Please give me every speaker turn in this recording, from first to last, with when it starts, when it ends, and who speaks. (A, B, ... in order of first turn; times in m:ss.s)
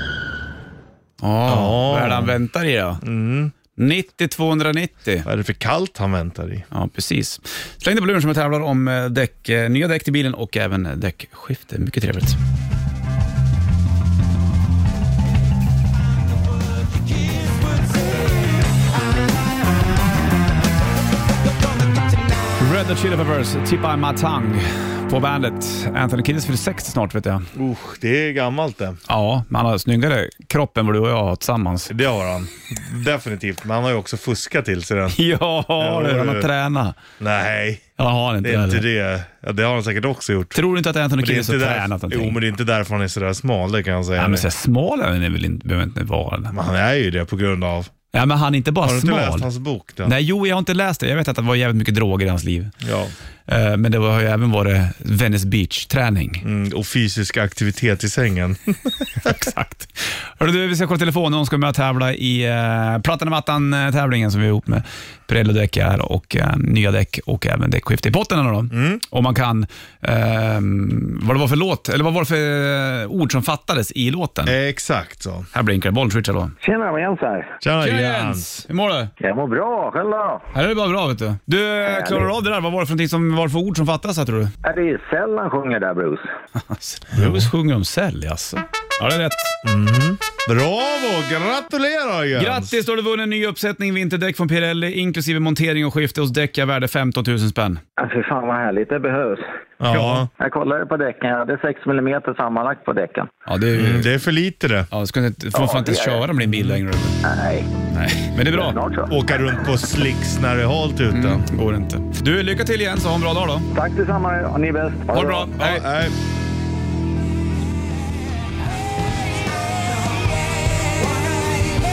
0:01.2-0:03.0 A
0:01.4-0:02.4 B
0:03.0-0:03.5 B
0:03.8-0:05.3 A
0:05.2-0:06.6 B
0:06.7-0:12.4 A
0:22.6-0:27.5 A
0:27.5-0:29.0 B
0:29.1-0:31.9 A
0:31.9-0:35.2 B
0:35.1-0:37.0 A
0:35.8-0:36.5 B
0:37.2-0:37.8 B
0:38.0-0:38.8 A
0:38.4-0:40.6 B
0:40.5-0:42.4 A
0:41.2-0:44.5 B
0:44.2-0:46.6 A
0:46.5-0:47.9 B
0:48.1-0:49.5 A
0:48.8-0:50.1 B
0:50.0-0:52.7 A
0:52.8-0:53.1 B
0:53.5-0:56.4 A
0:56.4-0:59.3 B
0:59.2-1:14.5 A
1:08.7-1:09.0 B
1:14.4-1:15.5 B
1:15.5-1:16.5 A
1:16.6-1:17.6 C
1:17.6-1:18.6 B
1:17.8-1:19.1 A
1:19.2-1:20.5 C
1:20.5-1:24.5 A
1:21.8-1:22.3 C
1:24.6-1:26.3 C
1:26.7-1:29.5 A
1:27.1-1:27.5 B
1:29.6-1:32.8 B
1:32.4-1:37.8 A
1:38.0-1:43.3 C
1:39.8-1:40.3 B
1:43.5-1:44.1 A
1:43.7-1:44.9 B
1:44.9-1:47.2 A
1:45.5-1:46.3 C
1:46.5-1:46.8 B
1:47.2-1:47.7 C
1:47.9-1:48.8 A
1:48.5-1:49.3 C
1:49.1-1:51.4 B
1:51.1-1:53.7 A
1:53.7-1:55.5 C
1:55.1-1:55.8 A
1:55.5-1:56.2 B